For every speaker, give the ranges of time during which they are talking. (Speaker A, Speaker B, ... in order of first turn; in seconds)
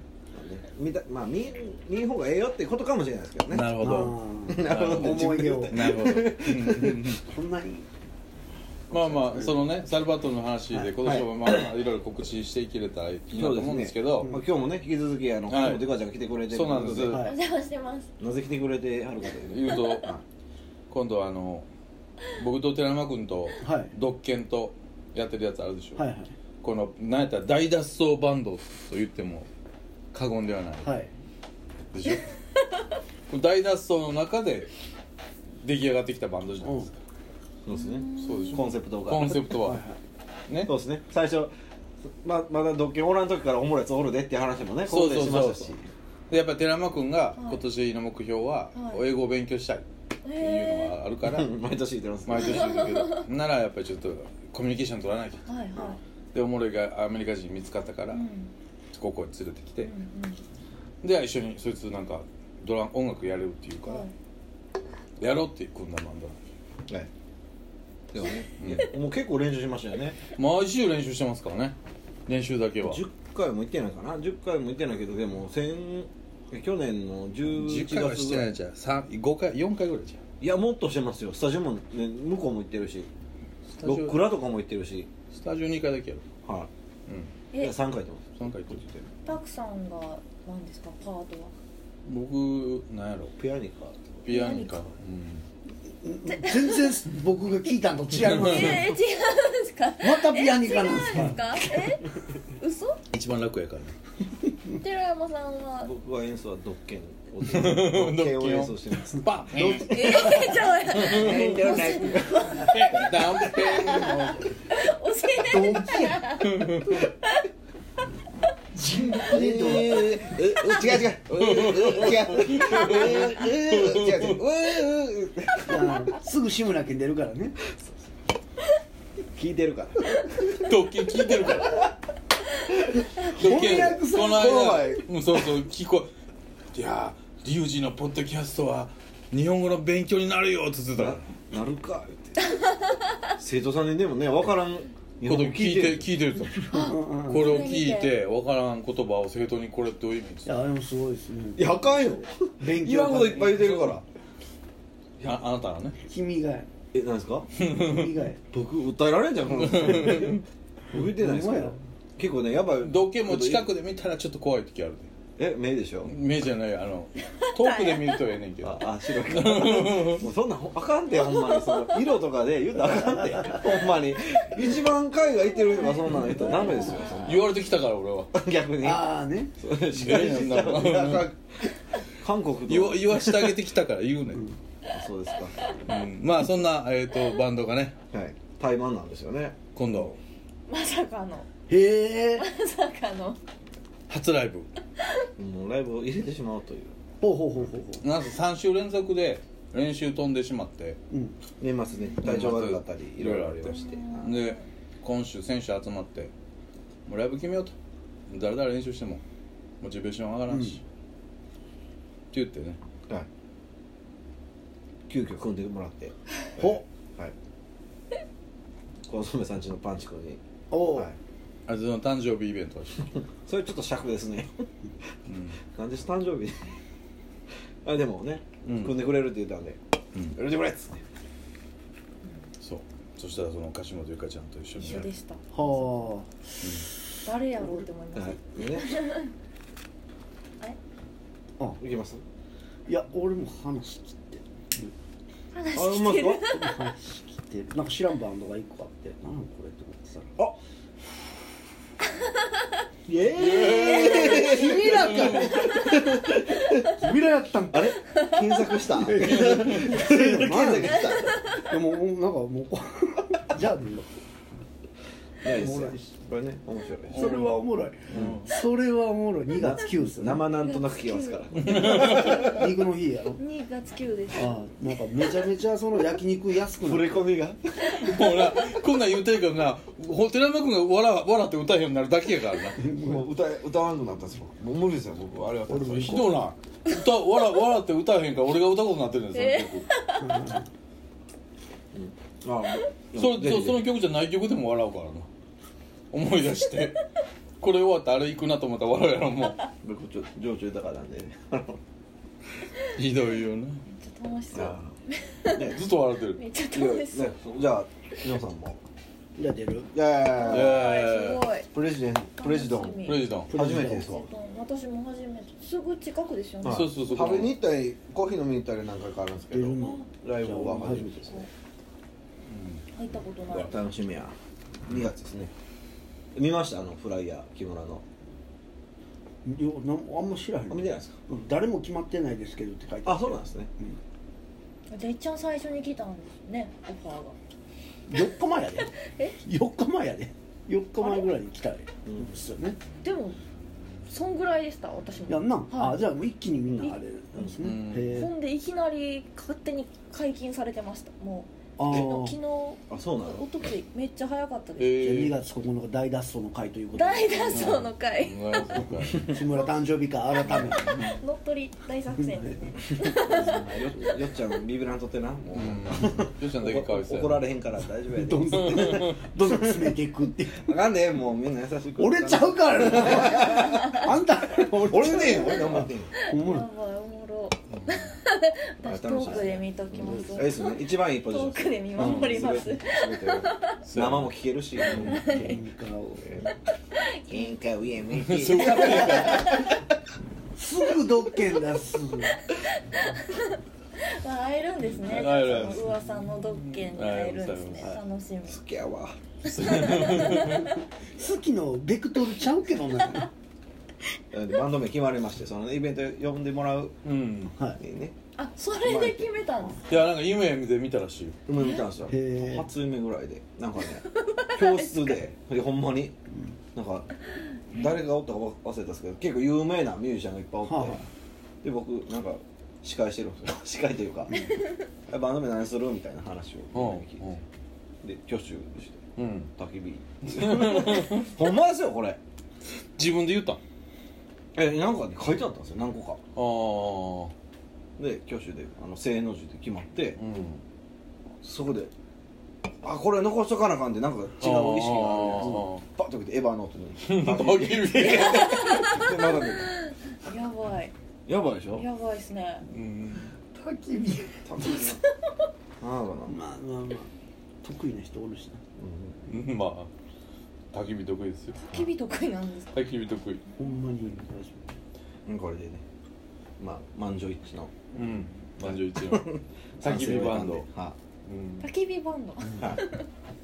Speaker A: 0.3-3.8, 4.5-7.1, 11.0-11.7, 13.3-17.2, 18.2-20.2, 37.6-39.6, 40.6-41.5, 42.2-45.9, 51.2-52.9, 68.1-70.2, 72.8-78.5, 80.4-83.1, 83.8-85.1, 86.4-86.7, 87.5-89.1, 93.4-94.2, 105.8-110.3, 110.9-113.6, 119.3-126.1, 129.3-130.4, 133.2-135.5, 140.9-142.6, 143.4-146.1, 151.6-154.1, 156.9-157.7, 158.5-163.7, 165.4-166.1, 168.6-177.5, 178.3-183.7, 184.9-185.8, 188.1-190.2, 195.4-196.9, 201.6-204.3, 215.1-217.3, 219.1-220.4, 223.4-224.7, 225.7-226.6, 227.8-229.8, 230.3-231.0, 238.1-239.0, 241.8-242.2, 245.7-246.4, 253.4-256.9, 257.7-261.3, 265.4-267.4, 268.1-268.5, 269.6-272.3, 276.8-278.1, 282.9-286.4, 291.9-293.9, 299.8-301.8, 304.5-304.9, 305.5-305.8, 306.7-308.8, 309.9-310.9, 311.7-314.3, 316.6-321.5, 323.5-324.3, 324.9-325.5, 326.3-328.0, 330.7-331.2, 333.1-333.7, 342.1-342.3, 352.9-353.5, 363.4-369.9, 370.6-374.1, 374.6-376.1, 378.8-385.5, 387.3-389.6, 395.1-395.8, 398.5-399.2, 404.3-407.0, 407.8-408.2, 408.8-409.4, 411.5-416.2, 416.7-417.1, 417.7-421.0, 421.6-424.5, 425.1-427.3, 428.0-429.0, 429.6-432.2, 434.6-436.2, 438.0-440.2, 441.4-441.9, 442.8-449.7, 451.3-451.9, 454.5-455.0, 455.8-456.4, 458.8-459.3, 465.3-465.8, 466.6-467.8, 468.6-471.0
Speaker B: 3.5-7.2, 8.9-14.4, 15.5-17.3, 19.5-20.1, 20.9-21.7, 22.3-26.1, 26.6-29.5, 30.1-30.9, 31.9-32.3, 33.3-34.7, 35.6-37.0, 38.2-39.8, 40.5-40.7, 44.8-45.8, 46.3-51.5, 52.2-55.4, 56.3-58.2, 58.9-59.9, 61.0-64.1, 65.2-66.4, 68.6-68.9, 70.3-71.8, 72.3-73.0, 77.5-80.2, 83.8-84.2, 85.3-86.2, 87.1-87.3, 88.4-88.8, 92.0-93.3, 94.2-95.4, 98.3-98.8, 103.1-103.9, 107.4-111.5, 112.5-114.4, 116.4-116.8, 121.4-124.4, 130.6-131.9, 133.3-136.1, 136.7-141.2, 145.2-150.5, 155.2-156.0, 157.6-158.1, 159.5-160.4, 162.8-165.1, 166.1-170.2, 177.1-178.3, 179.8-181.3, 182.7-184.4, 185.8-187.9, 189.8-190.1, 194.1-194.7, 198.0-201.0, 202.2-206.3, 207.1-207.7, 208.3-209.2, 209.8-210.8, 212.3-212.8, 221.7-223.1, 225.3-225.6, 228.6-229.0, 232.6-235.1, 236.6-236.9, 253.4-255.5, 267.1-268.5, 271.8-272.4, 277.9-282.9, 286.0-289.9, 293.1-295.3, 296.1-297.0, 297.6-299.6, 302.9-303.8, 305.6-306.4, 310.4-311.4, 313.0-313.5, 316.6-317.6, 322.5-322.8, 347.6-348.2, 354.8-355.4, 357.5-359.4, 365.5-367.5, 377.7-378.1, 382.0-382.5, 383.8-385.5, 388.2-389.7, 395.1-398.0, 399.4-400.8, 407.1-407.6, 409.9-411.4, 426.7-427.4, 429.2-429.5, 430.3-431.3, 432.9-433.6, 436.3-437.3, 440.2-440.6, 444.4-445.8, 447.0-448.9, 452.6-453.3, 459.3-459.9, 460.7-461.6, 462.7-463.4, 467.9-470.7, 471.2-471.7
Speaker C: 3.8-5.9, 7.1-7.9, 8.9-9.7, 17.0-17.4, 23.6-23.9, 26.0-26.3, 30.8-31.1, 36.6-36.9, 39.6-40.0, 96.0-99.0, 100.0-101.4, 109.5-112.9, 115.4-116.3, 118.7-120.2, 125.7-127.6, 133.2-134.5, 146.6-147.6, 150.4-154.0, 156.0-156.7, 157.7-158.4, 160.9-161.8, 178.8-179.6, 191.7-192.4, 197.2-198.1, 201.1-201.4, 210.5-210.8, 216.6-216.8, 220.7-221.1, 235.5-236.3, 242.9-244.9, 246.4-250.4, 253.1-258.0, 258.9-264.2, 265.4-266.1, 267.1-270.5, 271.8-273.4, 274.3-277.2, 282.8-283.2, 285.7-286.4, 290.2-290.6, 309.4-309.9, 313.5-314.2, 319.5-321.3, 329.4-334.0, 338.1-338.9, 339.4-342.8, 345.3-348.3, 351.8-352.4, 355.0-357.8, 359.2-361.0, 362.2-364.1, 368.2-370.8, 372.0-376.7, 379.2-380.4, 385.2-386.4, 388.8-389.3, 390.6-392.3, 401.1-403.3, 412.1-412.7, 420.6-421.0, 453.5-454.6, 456.3-457.1, 457.6-458.6, 463.6-464.7
Speaker D: 17.2-18.1, 37.7-38.6, 47.4-47.6, 48.7-49.0, 50.2-50.9, 52.4-53.3, 55.5-56.0, 58.1-58.5, 59.8-60.4, 63.9-64.1, 89.2-91.5, 94.3-94.8, 96.3-97.0, 98.2-103.0, 104.7-105.9, 109.8-113.1, 113.7-117.4, 146.7-148.2, 167.3-168.2, 171.1-171.8, 175.8-177.1, 190.7-191.5, 192.3-193.4, 203.7-204.6, 234.8-236.2, 237.2-239.3, 245.5-246.7, 270.5-274.7, 289.3-290.6, 303.9-305.7, 306.3-307.4, 310.3-311.7, 312.4-317.5, 319.8-320.1, 322.9-323.8, 334.9-337.4, 338.9-339.4, 341.0-341.3, 343.0-343.4, 344.1-346.1, 348.1-355.1, 356.9-358.9, 360.4-363.8, 375.1-383.8, 384.9-385.6, 386.9-387.6, 389.0-389.7, 392.5-398.6, 399.4-400.6, 408.4-409.8, 411.6-411.8, 414.1-415.2, 448.0-450.9, 451.7-452.7, 461.6-462.9, 471.6-473.1